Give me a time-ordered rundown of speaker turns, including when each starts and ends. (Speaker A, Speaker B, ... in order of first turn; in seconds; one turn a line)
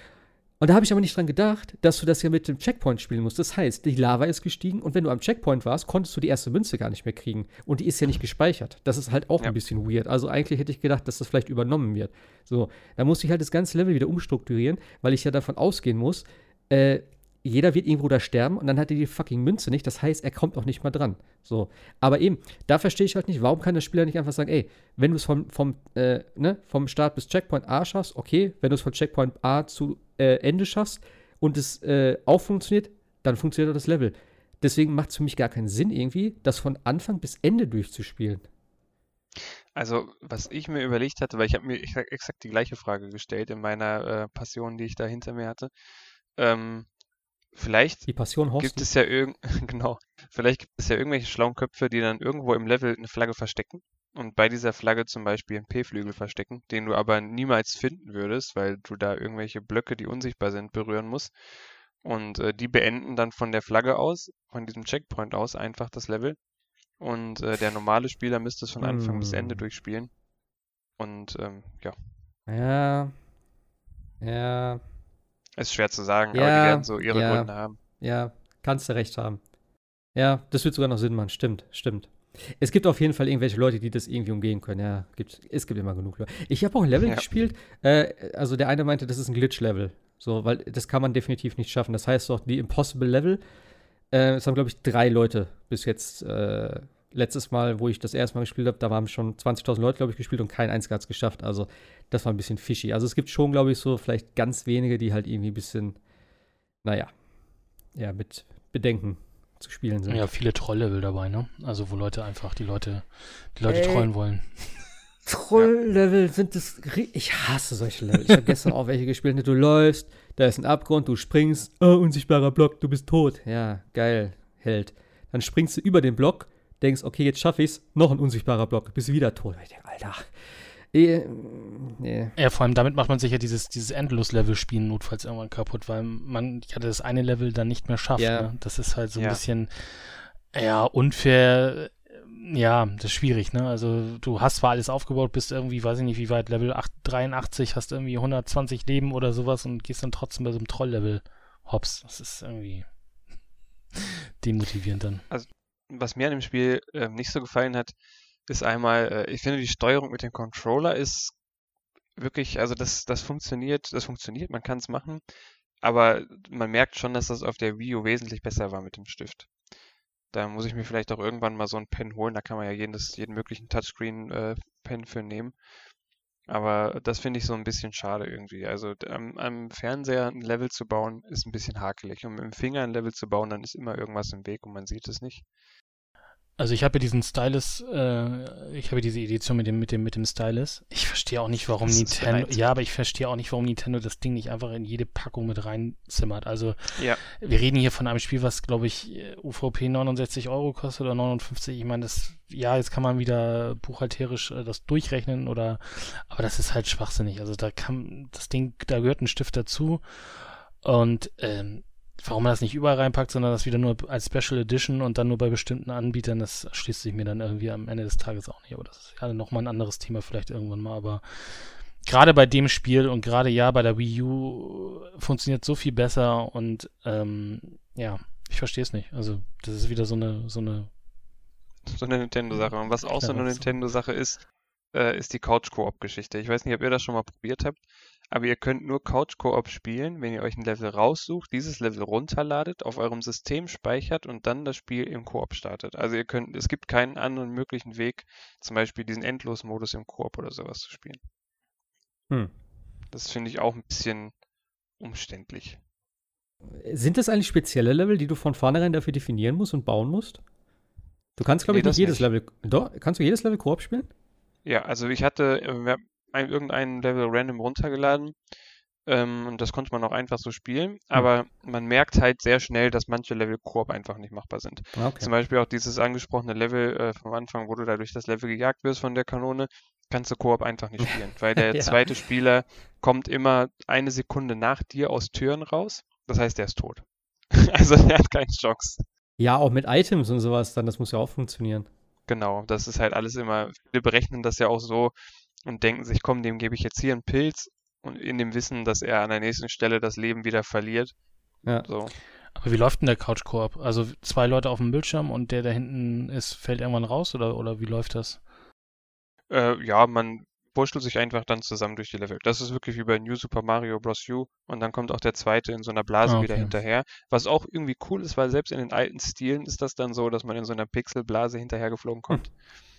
Speaker A: 0.6-38.5
Speaker B: 39.8-45.7
Speaker B: 46.4-46.9
Speaker B: 47.5-61.3
Speaker A: 48.1-48.9
Speaker B: 62.0-66.4
Speaker B: 67.0-70.1
Speaker A: 68.8-69.6
Speaker B: 71.0-72.0
Speaker A: 72.5-73.1
Speaker A: 74.2-74.8
Speaker B: 75.6-77.8
Speaker A: 76.3-79.4
Speaker A: 80.1-93.4
Speaker A: 94.1-106.0
Speaker A: 106.8-107.1
Speaker A: 107.9-110.2
Speaker C: 110.1-114.8
Speaker A: 113.7-114.1
Speaker A: 115.2-130.3
Speaker A: 130.9-132.3
Speaker C: 132.4-152.8
Speaker A: 138.2-138.5
Speaker C: 154.4-155.2
Speaker B: 155.3-157.9
Speaker B: 158.5-161.3
Speaker B: 162.2-165.2
Speaker B: 165.8-169.5
Speaker B: 170.3-175.5
Speaker B: 176.5-185.4
Speaker C: 186.6-230.9
Speaker B: 191.8-192.6
Speaker B: 231.9-251.2
Speaker C: 233.2-233.6
Speaker B: 253.1-254.3
Speaker B: 255.0-255.8
Speaker A: 256.7-260.4
Speaker A: 261.4-264.1
Speaker B: 261.7-262.2
Speaker B: 264.6-268.3
Speaker B: 269.1-289.1
Speaker A: 274.9-275.3
Speaker A: 281.6-282.0
Speaker A: 289.4-291.9
Speaker B: 292.3-295.1
Speaker B: 295.6-301.1
Speaker B: 301.8-302.1
Speaker C: 302.6-308.4
Speaker B: 309.5-322.5
Speaker C: 316.2-316.7